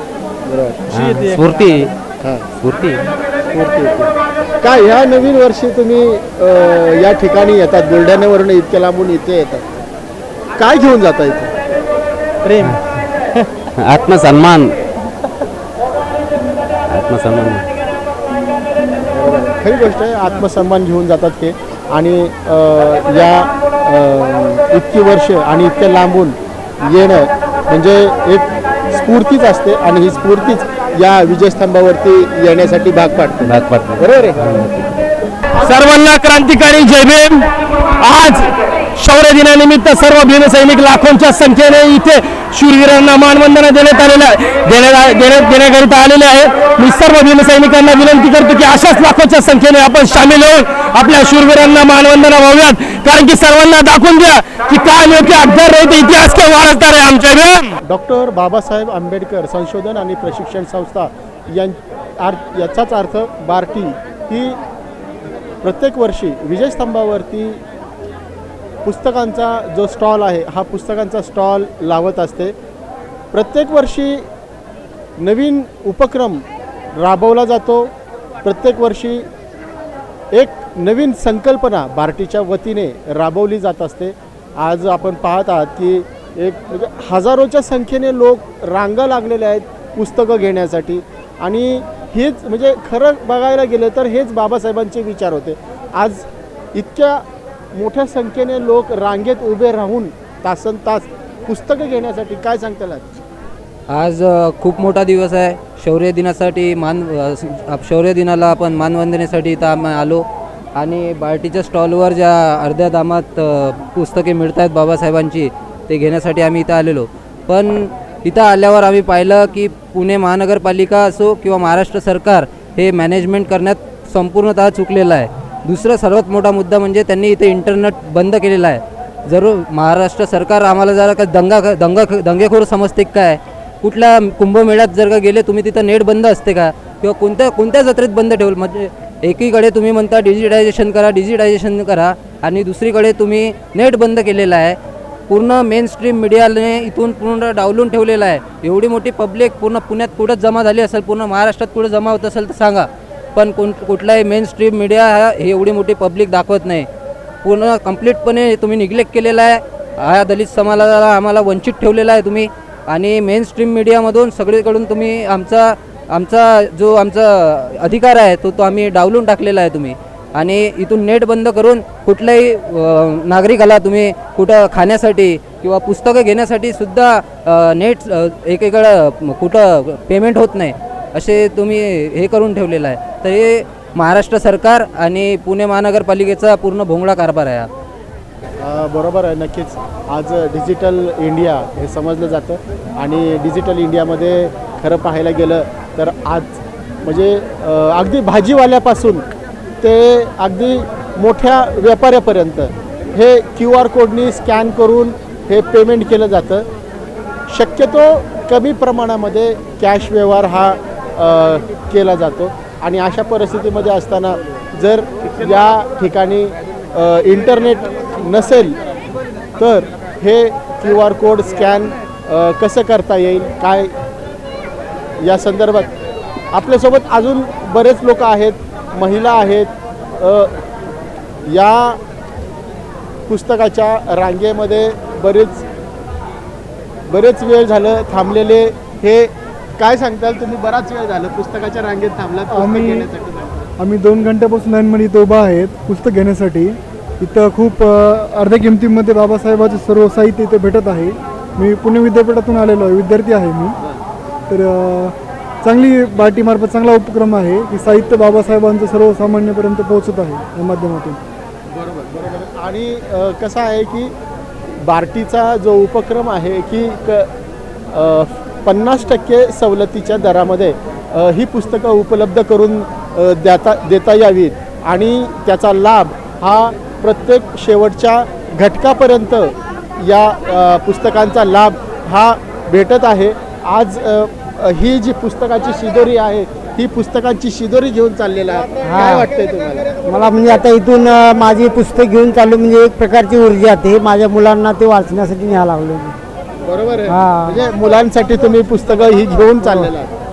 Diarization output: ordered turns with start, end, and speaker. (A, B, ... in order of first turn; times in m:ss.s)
0:00.4-0:01.2 A
0:00.9-0:01.9 B
0:02.6-0:03.0 B
0:03.5-0:09.7 A
0:10.6-0:11.5 A
0:12.6-0:13.0 B
0:13.8-0:14.7 B
0:16.9-0:17.6 B
0:19.1-0:34.4 A
0:33.4-0:34.9 B
0:35.6-0:37.5 C
0:38.0-0:57.7 C
0:57.8-1:04.6 A
1:05.6-1:07.6 A
1:08.8-1:12.5 A
1:13.3-1:14.2 A
1:15.2-1:16.4 A
1:17.0-1:17.9 A
1:18.4-1:19.2 A
1:20.3-1:37.2 A
1:37.7-1:43.1 A
1:43.9-1:50.2 D
1:50.8-2:24.8 D
2:25.3-2:36.9 D
2:37.4-3:07.7 D
3:08.6-3:19.2 A
3:19.8-3:26.6 A
3:27.5-3:38.8 A
3:39.6-3:43.9 A
3:45.2-3:45.9 A
3:46.5-3:50.5 A
3:51.4-3:52.0 A
3:53.3-3:55.7 A
3:57.1-4:03.7 A
4:02.5-4:03.1 E
4:03.8-4:13.7 E
4:14.5-4:21.2 E
4:21.7-4:24.1 A
4:24.8-4:27.3 A
4:27.9-4:49.9 A
4:48.9-4:49.3 F
4:50.1-4:56.1 F
4:56.6-5:00.1 A
4:57.1-4:57.6 F